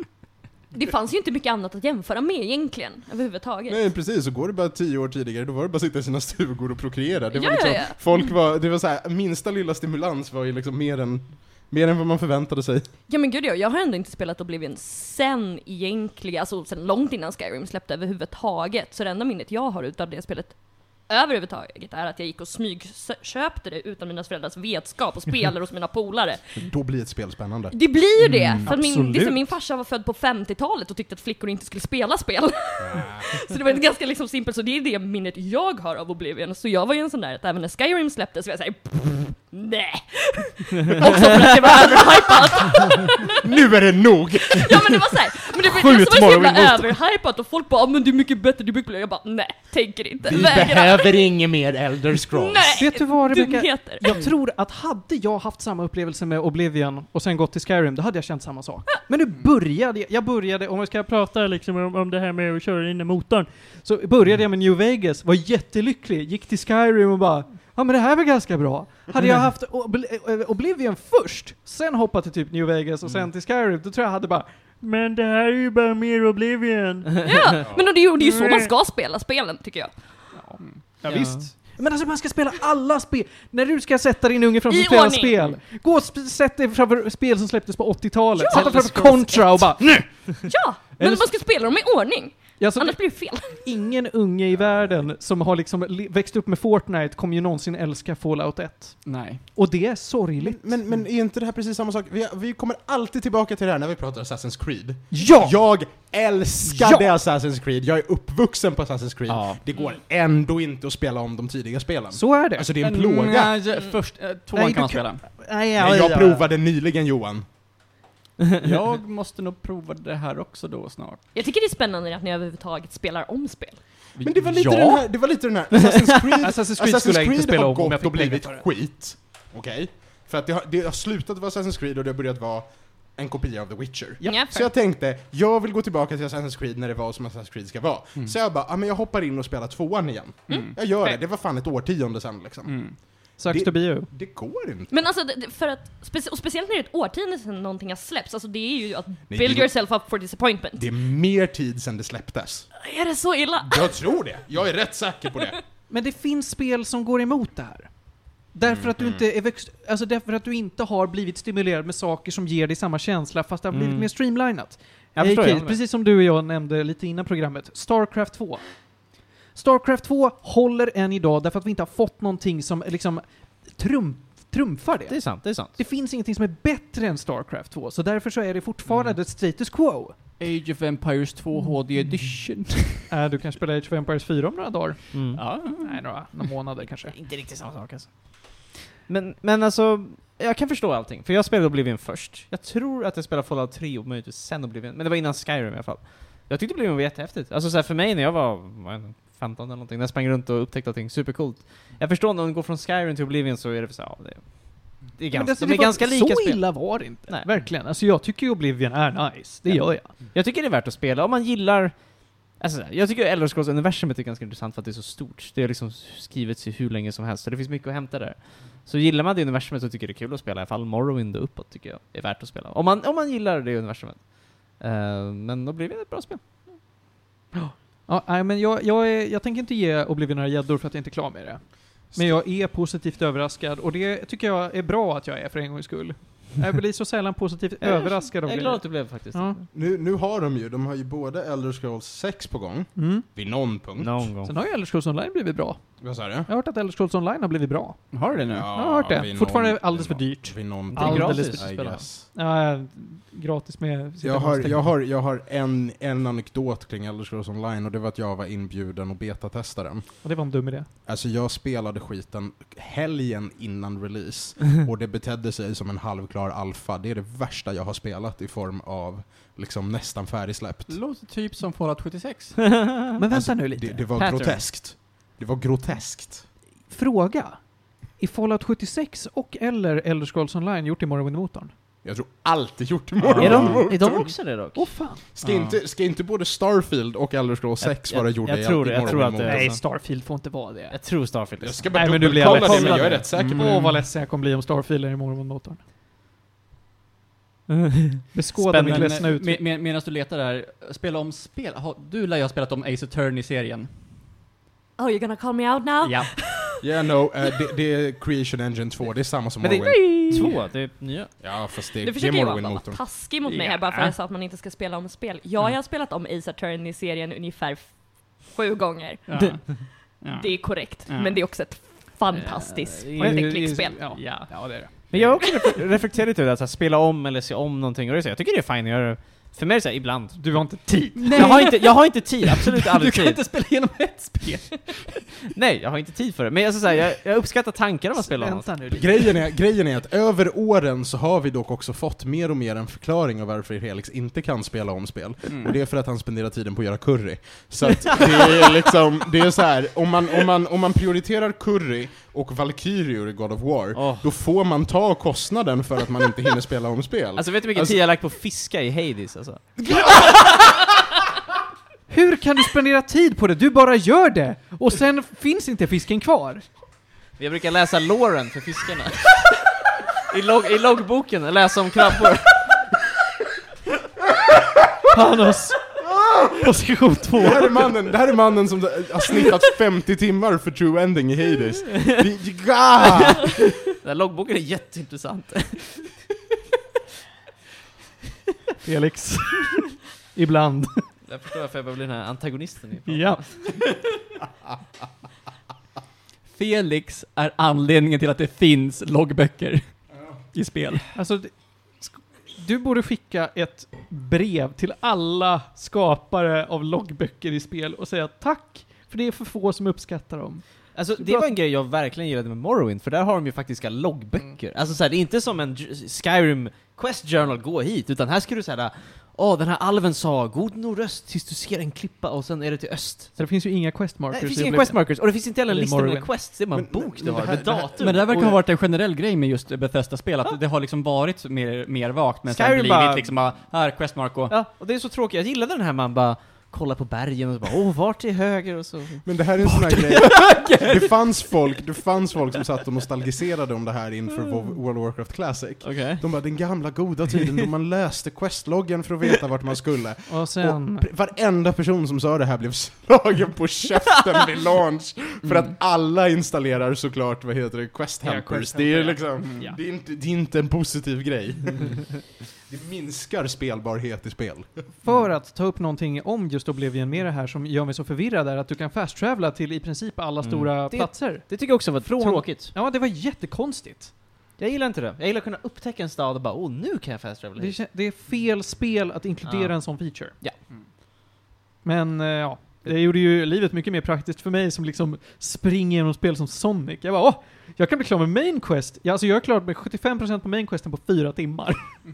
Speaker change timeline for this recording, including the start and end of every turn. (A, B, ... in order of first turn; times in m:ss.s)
0:00.7-0:03.8 A
0:03.7-0:12.9 B
0:07.3-0:08.3 A
0:13.1-0:26.7 A
0:26.6-0:27.8 B
0:27.7-0:43.6 A
0:28.2-0:28.7 C
0:28.6-0:29.6 D
0:32.8-0:33.3 B
0:43.4-0:47.0 B
0:44.4-0:51.3 A
0:50.2-0:52.8 B
0:52.2-0:54.1 A
0:52.8-1:17.5 D
1:17.2-1:20.4 A
1:17.6-1:17.9 B
1:18.1-1:18.7 D
1:20.3-1:30.4 D
1:20.6-1:21.2 C
1:21.1-1:21.5 E
1:24.7-1:25.4 A
1:28.4-1:29.1 A
1:28.7-1:29.5 C
1:30.4-1:33.7 A
1:31.0-1:31.3 D
1:32.6-1:40.8 D
1:34.6-1:35.1 B
1:39.1-1:39.4 C
1:40.4-1:53.6 B
1:45.1-1:45.6 D
1:46.6-1:47.1 D
1:49.3-1:49.6 C
1:52.1-1:52.7 D
1:52.8-1:55.2 C
1:54.5-1:56.5 D
1:55.8-1:57.5 B
1:58.6-2:01.2 C
2:01.3-2:04.1 A
2:04.1-2:05.0 C
2:04.2-2:24.9 B
2:06.4-2:08.7 D
2:14.2-2:14.7 A
2:20.5-2:21.2 A
2:20.5-2:20.7 C
2:22.6-2:23.0 C
2:23.4-2:24.1 D
2:24.9-2:30.9 A
2:29.3-2:29.7 B
2:30.8-2:32.7 B
2:32.8-2:34.0 A
2:33.6-2:35.6 B
2:35.9-2:48.7 D
2:38.6-2:39.2 B
2:43.7-2:44.1 E
2:45.2-2:45.8 E
2:49.5-3:00.2 D
2:55.1-2:55.8 E
3:00.4-3:03.1 C
3:03.1-3:07.2 D
3:05.1-3:05.5 E
3:05.4-3:06.2 C
3:06.8-3:27.6 E
3:25.3-3:30.1 D
3:29.7-3:46.4 E
3:47.6-3:59.6 D
3:52.1-3:52.4 B
3:57.8-3:59.6 E
3:59.7-4:04.3 B
4:03.0-4:03.3 D
4:04.0-4:04.5 E
4:04.4-4:08.2 D
4:06.0-4:06.5 B
4:08.1-4:08.7 C
4:08.3-4:12.3 B
4:08.7-4:14.9 D
4:10.9-4:11.7 E
4:14.2-4:20.3 B
4:20.2-4:20.9 D
4:21.1-4:31.0 B
4:30.9-4:32.7 C
4:32.8-4:33.0 E
4:33.2-4:34.6 D
4:33.3-4:36.5 B
4:36.9-4:41.7 D
4:42.0-4:44.3 B
4:43.2-4:43.8 C
4:43.4-4:45.0 E
4:44.7-4:45.2 D
4:45.4-4:49.7 B
4:45.4-4:45.8 C
4:47.8-4:49.8 E
4:49.4-4:51.0 D
4:50.9-4:53.2 E
4:51.6-4:53.8 B
4:51.9-4:55.8 D
4:53.3-4:54.0 C
4:57.7-4:59.2 E
4:58.3-4:59.6 D
4:58.8-5:03.9 C
5:05.0-5:06.8 A
5:06.0-5:06.3 C
5:06.8-5:10.5 B
5:09.6-5:10.4 A
5:10.3-5:11.3 E
5:11.4-5:13.0 B
5:12.0-5:24.5 A
5:13.4-5:14.2 C
5:19.3-5:21.4 C
5:22.3-5:23.4 E
5:23.2-5:25.3 D
5:24.2-5:25.3 C
5:25.1-5:33.4 E
5:30.4-5:31.8 D
5:31.2-5:31.9 C
5:32.5-5:35.1 C
5:35.5-5:38.7 E
5:38.2-5:39.3 D
5:38.9-5:58.0 B
5:54.0-5:54.3 E
5:57.4-5:59.8 E
6:02.1-6:06.6 D
6:07.4-6:09.6 E
6:10.3-6:12.8 E
6:15.1-6:15.8 D
6:16.0-6:16.7 B
6:16.6-6:17.9 D
6:17.4-6:23.6 B
6:23.3-6:26.2 E
6:28.8-6:31.1 D
6:31.2-6:33.9 E
6:33.1-6:33.6 D
6:36.5-6:41.1 C
6:41.1-6:51.5 D
6:51.0-7:03.5 E
7:03.4-7:06.3 D
7:04.3-7:08.6 E
7:06.7-7:08.2 B
7:08.0-7:14.6 C
7:12.5-7:13.6 E
7:14.5-7:19.4 E
7:19.2-7:44.9 B
7:19.6-7:21.1 C
7:25.8-7:26.2 E
7:30.3-7:31.1 D
7:38.2-7:39.8 D
7:45.0-7:54.1 D
7:50.4-7:52.7 E
7:54.6-7:57.8 E
7:57.6-8:00.4 D
7:59.4-8:00.6 E
8:01.8-8:12.0 D